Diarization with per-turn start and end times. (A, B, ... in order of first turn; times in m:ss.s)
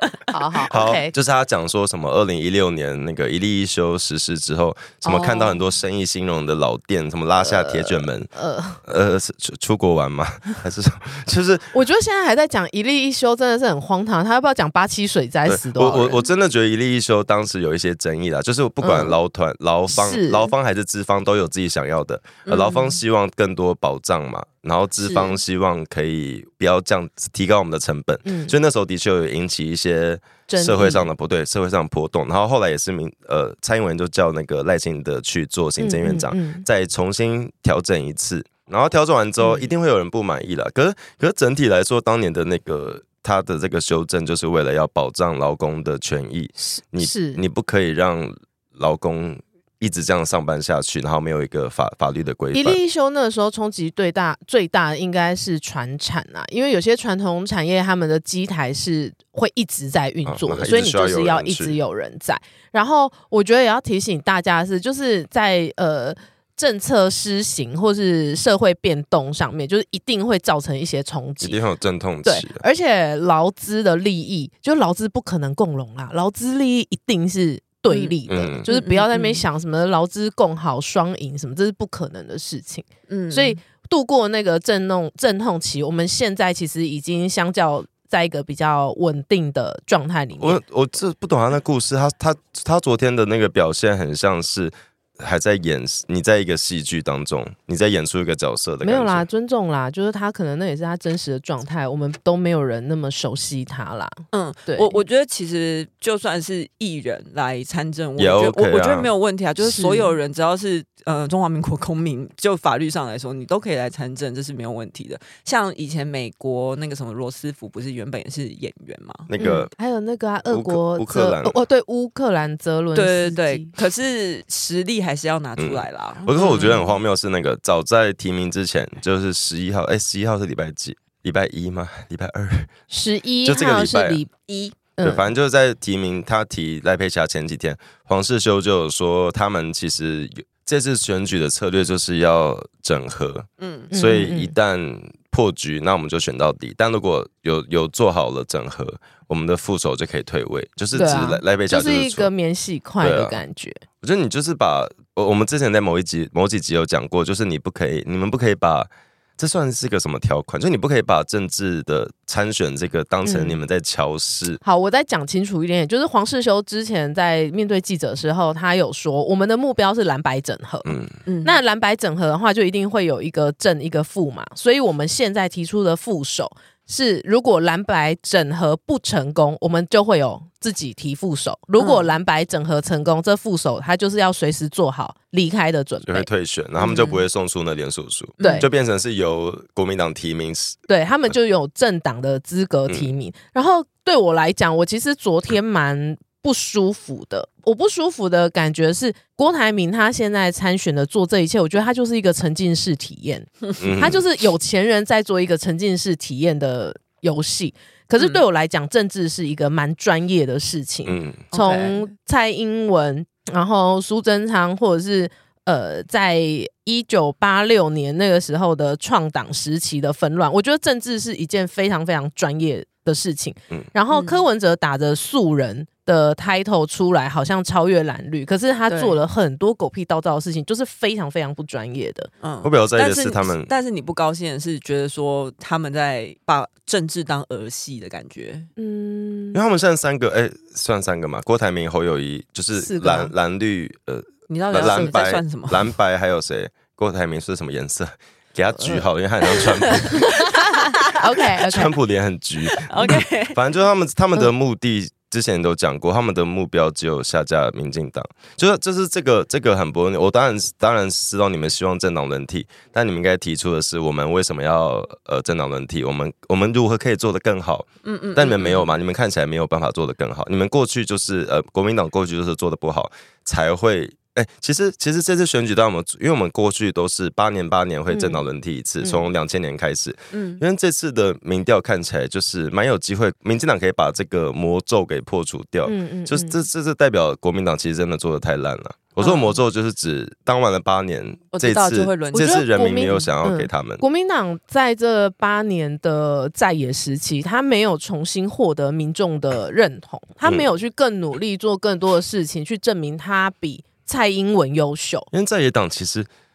0:00.3-0:01.1 A
0:00.6-0:08.3 B
0:05.0-0:05.6 C
0:07.4-0:08.8 A
0:08.8-0:11.7 B
0:11.7-0:16.2 A
0:15.4-0:52.8 B
0:18.8-0:19.2 A
0:19.9-0:20.5 A
0:22.4-0:23.0 C
0:25.0-0:25.4 A
0:28.2-0:28.5 A
0:30.5-0:31.0 A
0:35.8-0:36.6 A
0:47.0-0:47.4 A
0:52.5-1:11.6 A
1:00.2-1:01.8 B
1:11.4-1:12.6 B
1:12.2-1:30.6 A
1:17.9-1:18.2 C
1:18.3-1:18.7 B
1:18.7-1:19.4 C
1:23.1-1:23.6 C
1:30.4-1:39.2 B
1:38.8-1:45.0 A
1:44.3-1:59.6 C
1:48.2-1:49.1 B
1:49.6-1:50.1 A
1:59.3-1:59.7 B
1:59.4-2:03.7 A
2:00.5-2:01.6 B
2:02.9-2:06.9 C
2:05.6-2:12.7 B
2:12.9-2:14.3 A
2:13.4-2:14.2 B
2:14.5-2:14.7 C
2:14.8-2:15.2 A
2:15.0-2:32.3 B
2:23.6-2:23.9 C
2:23.9-2:24.5 A
2:30.9-2:33.8 A
2:33.0-2:33.4 B
2:34.0-2:44.6 B
2:43.2-2:43.6 A
2:44.6-3:06.3 A
2:50.8-2:51.1 B
2:51.3-2:51.6 C
3:01.8-3:02.1 C
3:06.0-3:10.8 B
3:06.8-3:07.2 C
3:08.4-3:08.7 C
3:08.4-3:08.7 A
3:10.9-3:52.3 A
3:23.8-3:24.2 B
3:31.0-3:31.5 B
3:31.5-3:32.0 C
3:44.1-3:44.4 C
3:48.9-3:49.2 C
3:52.4-3:58.7 C
3:52.6-3:53.7 B
3:58.8-3:59.6 A
3:59.5-4:10.3 B
4:02.8-4:03.3 A
4:04.5-4:05.9 C
4:08.8-4:09.0 A
4:10.0-4:11.9 A
4:11.6-4:54.0 B
4:12.8-4:13.6 C
4:28.0-4:28.9 C
4:38.1-4:38.4 A
4:40.3-4:40.6 C
4:45.8-4:46.6 A
4:49.2-4:49.6 C
4:51.5-4:52.6 C
4:52.3-5:05.3 A
5:05.3-5:06.3 B